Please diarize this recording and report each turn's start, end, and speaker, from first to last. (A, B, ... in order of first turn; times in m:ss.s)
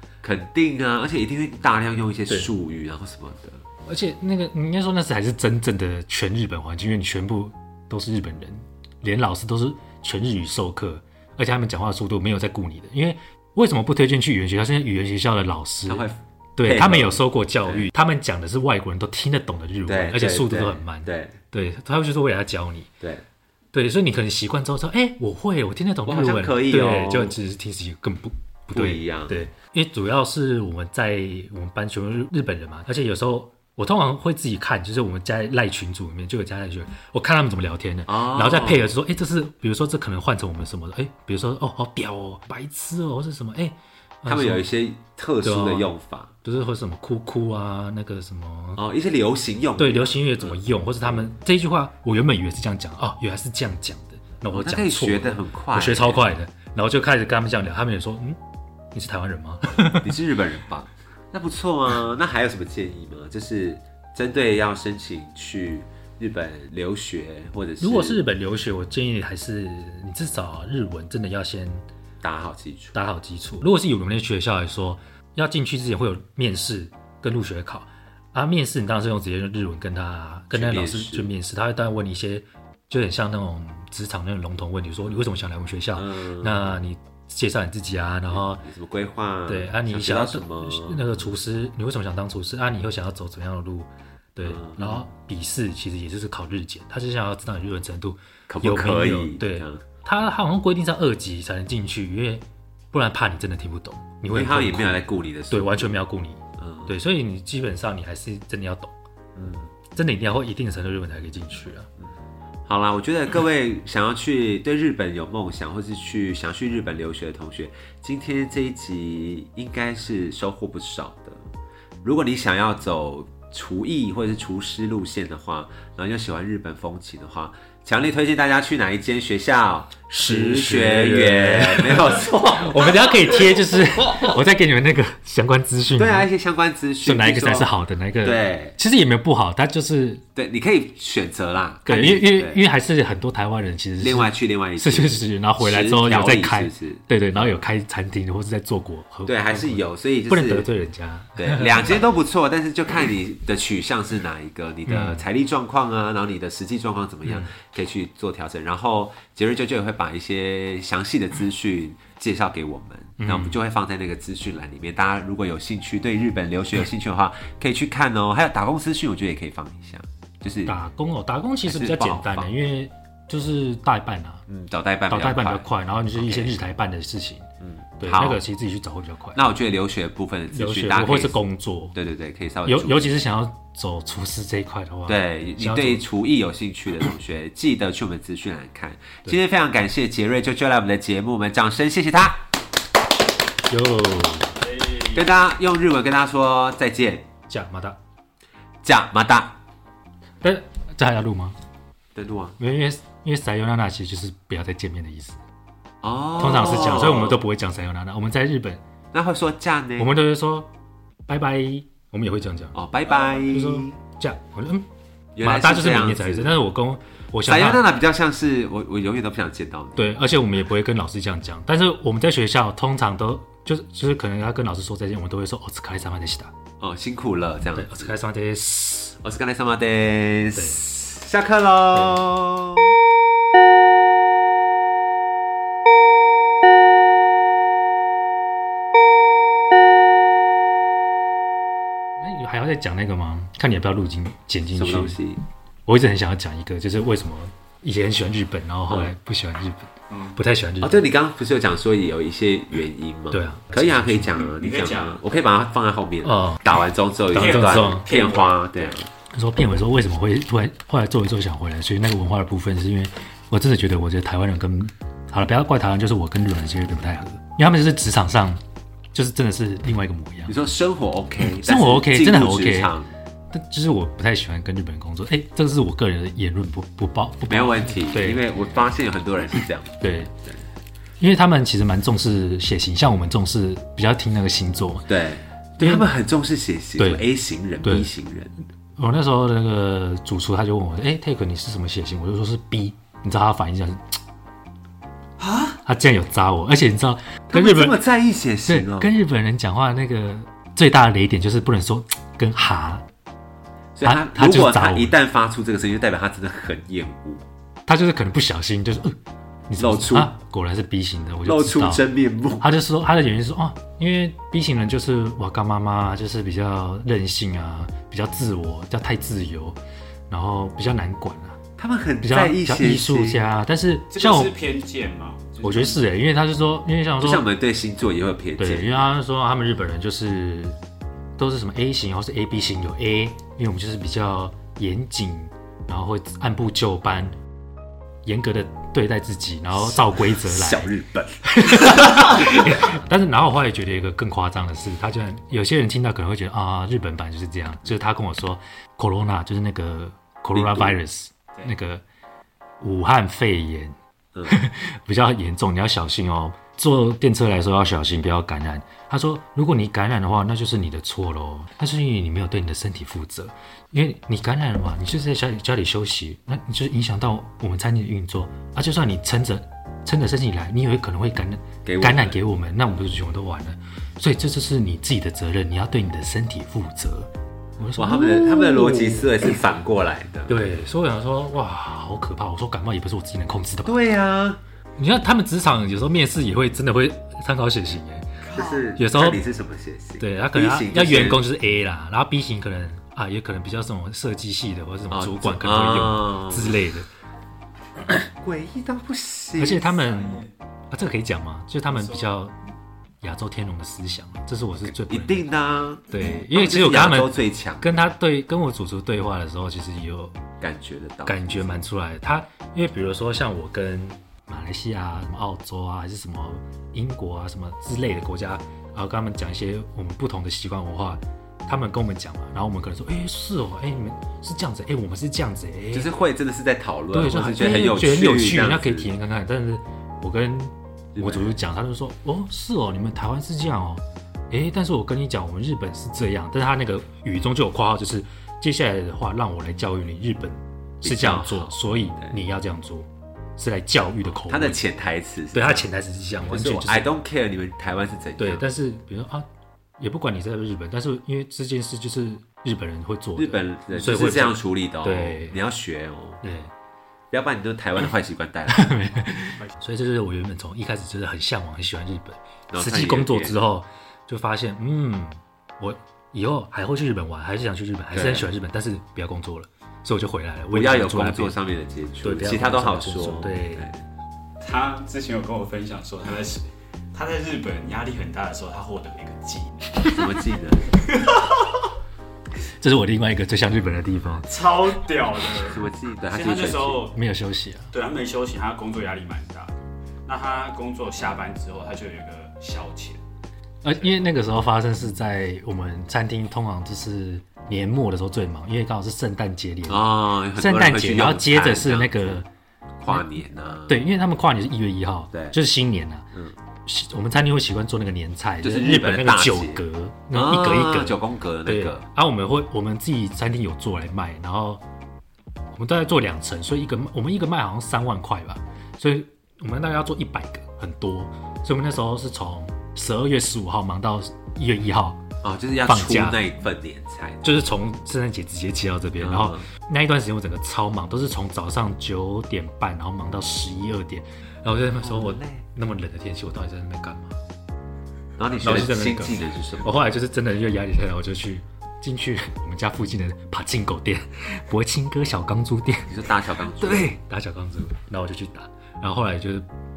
0:00.2-0:03.6 A
0:03.9-0:22.9 B
0:15.9-0:17.9 A
0:19.9-0:21.4 A
0:23.0-0:23.2 A
0:23.7-0:44.7 B
0:26.1-0:27.4 A
0:28.7-0:29.4 A
0:38.1-0:38.9 A
0:44.3-0:46.3 A
0:45.4-0:45.9 B
0:46.4-0:48.8 B
0:48.8-0:51.3 A
0:49.8-0:58.4 B
0:54.5-0:56.3 A
0:58.9-1:00.1 B
1:00.0-1:08.2 A
1:07.8-1:11.8 B
1:12.2-1:13.0 A
1:12.9-1:28.6 B
1:20.5-1:21.3 A
1:26.0-1:26.7 A
1:28.3-1:31.4 A
1:29.5-1:48.9 B
1:34.4-1:35.0 A
1:38.5-1:39.8 A
1:44.3-1:46.0 A
1:46.6-1:46.9 A
1:49.4-1:49.7 A
1:49.9-1:51.9 B
1:52.7-2:01.5 A
2:02.0-2:13.0 A
2:10.2-2:16.3 B
2:16.0-2:17.7 A
2:17.0-2:20.2 B
2:18.2-2:18.8 A
2:20.4-2:22.6 A
2:21.9-2:32.0 B
2:24.0-2:27.6 A
2:29.3-2:30.7 A
2:31.4-2:50.8 A
2:34.9-2:35.3 B
2:37.3-2:37.5 B
2:43.2-2:43.6 B
2:50.7-2:54.4 B
2:51.6-2:52.5 A
2:54.5-2:56.6 A
2:55.1-2:57.5 B
2:57.6-2:58.4 A
2:58.0-2:59.4 B
2:59.4-3:01.4 A
3:00.5-3:02.0 B
3:01.9-3:03.1 A
3:02.6-3:06.0 B
3:05.1-3:12.5 A
3:13.7-3:14.6 B
3:14.6-3:15.2 C
3:15.0-3:17.3 A
3:17.5-3:18.0 B
3:18.8-3:19.6 A
3:20.4-3:21.6 B
3:22.2-3:22.6 A
3:22.6-3:25.4 B
3:26.0-3:27.4 A
3:26.4-3:28.8 B
3:29.1-3:30.1 A
3:30.0-3:30.7 B
3:31.3-3:34.9 B
3:32.7-3:34.0 A
3:35.4-3:36.6 A
3:35.4-3:37.8 B
3:37.4-3:40.2 A
3:40.0-3:46.5 B
3:46.8-3:48.2 A
3:47.7-3:49.2 B
3:49.2-3:53.0 A
3:50.6-3:50.8 B
3:51.9-3:52.2 B
4:02.2-4:05.2 B
4:04.8-4:05.4 A
4:05.9-4:11.0 B
4:10.8-4:19.1 A
4:13.3-4:14.3 B
4:14.4-4:15.2 C
4:16.2-4:16.6 B
4:17.3-4:18.1 B
4:17.3-4:18.7 C
4:19.3-4:28.6 B
4:29.1-4:30.6 B
4:30.5-4:33.1 A
4:31.4-4:32.9 B
4:33.5-4:38.4 B
4:37.5-4:40.6 A
4:40.0-4:40.3 B
4:41.2-4:45.1 B
4:45.1-4:48.5 A
4:45.8-4:46.1 B
4:47.0-4:47.3 B
4:47.8-4:48.1 B
4:49.0-4:54.1 B
4:55.4-4:55.8 C
4:55.8-4:58.0 B
4:57.5-4:59.1 A
4:58.7-5:03.1 B
5:04.0-5:07.4 A
5:04.0-5:05.1 B
5:07.9-5:09.2 B
5:09.7-5:12.0 B
5:09.8-5:10.3 A
5:11.4-5:12.7 A
5:12.6-5:19.8 B
5:20.3-5:21.6 B
5:21.8-5:23.4 A
5:22.2-5:24.5 B
5:24.1-5:26.0 C
5:25.6-5:27.4 B
5:27.2-5:29.1 A
5:28.6-5:30.8 B
5:31.4-5:37.3 B
5:38.2-5:40.9 B
5:39.8-5:42.8 A
5:41.5-5:52.0 B
5:50.5-5:51.0 A
5:52.8-5:54.0 B
5:54.5-6:19.5 B
6:11.8-6:12.4 A
6:18.0-6:20.6 A
6:20.5-6:24.0 B
6:23.8-6:24.6 A
6:25.0-6:29.4 B
6:28.5-6:31.5 A
6:28.5-6:28.8 C
6:30.2-6:37.1 B
6:35.1-6:36.8 A
6:38.1-6:40.0 A
6:39.6-6:42.6 B
6:43.2-6:45.5 B
6:44.9-6:48.0 A
6:46.1-6:50.3 B
6:50.6-6:51.9 A
6:51.2-7:06.1 B
7:05.9-7:09.1 A
7:07.1-7:24.8 B
7:11.2-7:11.6 A
7:21.0-7:22.3 A
7:24.3-7:25.9 A
7:25.5-7:27.1 B
7:26.5-7:28.6 A
7:28.4-7:29.4 B
7:30.0-7:35.6 B
7:33.4-7:36.4 A
7:36.4-7:36.7 B
7:37.3-7:39.0 A
7:38.7-7:51.6 B
7:42.7-7:43.5 A
7:48.1-7:48.5 A
7:50.7-7:54.0 A
7:52.2-7:53.9 B
7:54.6-7:59.9 C
8:00.0-8:00.9 A
8:01.1-8:01.3 C
8:02.8-8:04.5 B
8:04.5-8:07.2 C
8:05.6-8:07.1 A
8:07.1-8:07.9 B
8:07.9-8:09.7 C
8:10.3-8:13.2 C
8:13.8-8:22.5 B
8:19.9-8:22.4 A
8:23.0-8:24.0 A
8:23.9-8:26.3 B
8:26.8-8:34.8 B
8:28.6-8:32.0 A
8:35.8-8:45.2 B
8:45.4-8:47.5 A
8:45.8-8:46.4 B
8:47.4-8:57.4 B
8:49.2-8:49.6 A
8:55.0-8:55.6 A
8:58.4-9:00.1 A
8:58.6-9:09.7 B
9:06.1-9:07.2 A